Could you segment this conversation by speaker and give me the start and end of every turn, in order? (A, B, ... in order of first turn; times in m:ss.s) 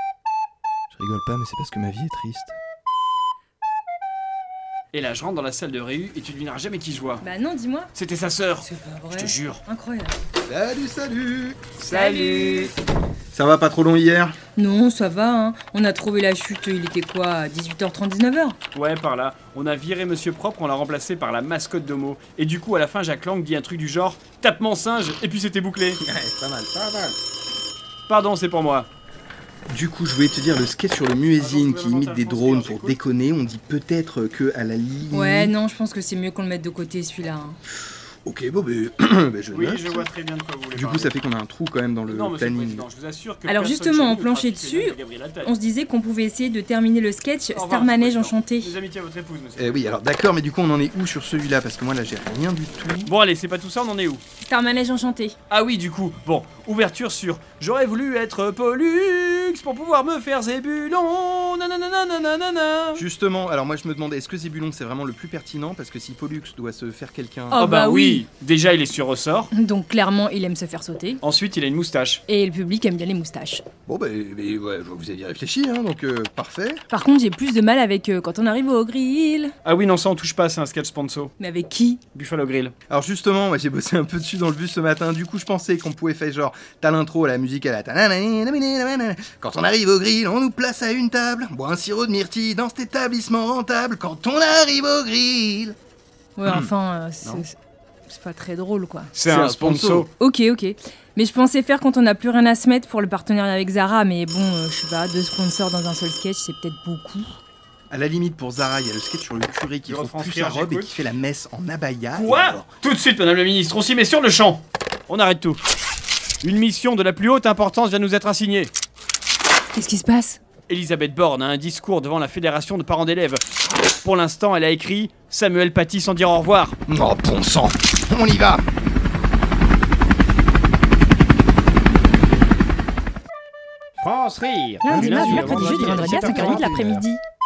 0:00.9-0:02.6 A
0:04.9-0:07.2 B
0:07.2-0:07.9 C
0:07.9-0:09.6 B
0:08.6-0:10.2 C
0:10.5-0:11.6 A
0:11.8-0:12.7 B
0:11.9-0:12.7 C
0:13.3-0:14.4 A
0:14.6-0:18.6 C
0:18.7-0:26.0 B
0:26.0-0:27.2 A
0:28.1-0:28.9 B
0:29.7-0:35.5 A
0:31.4-0:33.0 B
0:35.1-0:37.6 C
0:37.9-0:40.1 A
0:39.5-0:41.1 B
0:40.7-0:42.8 A
0:42.1-0:45.5 B
0:43.5-0:48.8 C
0:47.5-0:49.9 B
0:49.6-0:53.1 A
0:53.0-0:54.2 B
0:54.4-0:55.4 C
0:55.5-1:03.0 B
1:03.0-1:07.6 A
1:07.5-1:08.2 C
1:07.6-1:09.5 B
1:09.5-1:11.2 C
1:11.2-1:12.2 B
1:12.3-1:13.6 C
1:13.8-1:16.8 A
1:16.9-1:19.5 C
1:19.6-1:21.3 B
1:21.4-1:22.0 C
1:22.1-1:22.7 B
1:22.9-1:35.8 A
1:36.4-1:37.5 C
1:38.1-1:39.1 C
1:39.1-1:40.1 B
1:39.3-1:40.1 A
1:40.2-1:47.4 C
1:47.9-1:52.7 A
1:49.8-1:51.0 B
1:52.1-1:55.6 B
1:56.4-1:58.7 B
1:59.7-2:00.4 C
2:00.7-2:03.4 B
2:04.0-2:06.8 B
2:06.9-2:08.6 A
2:14.0-2:16.7 D
2:14.8-2:17.2 C
2:14.9-2:17.0 A
2:15.2-2:15.8 B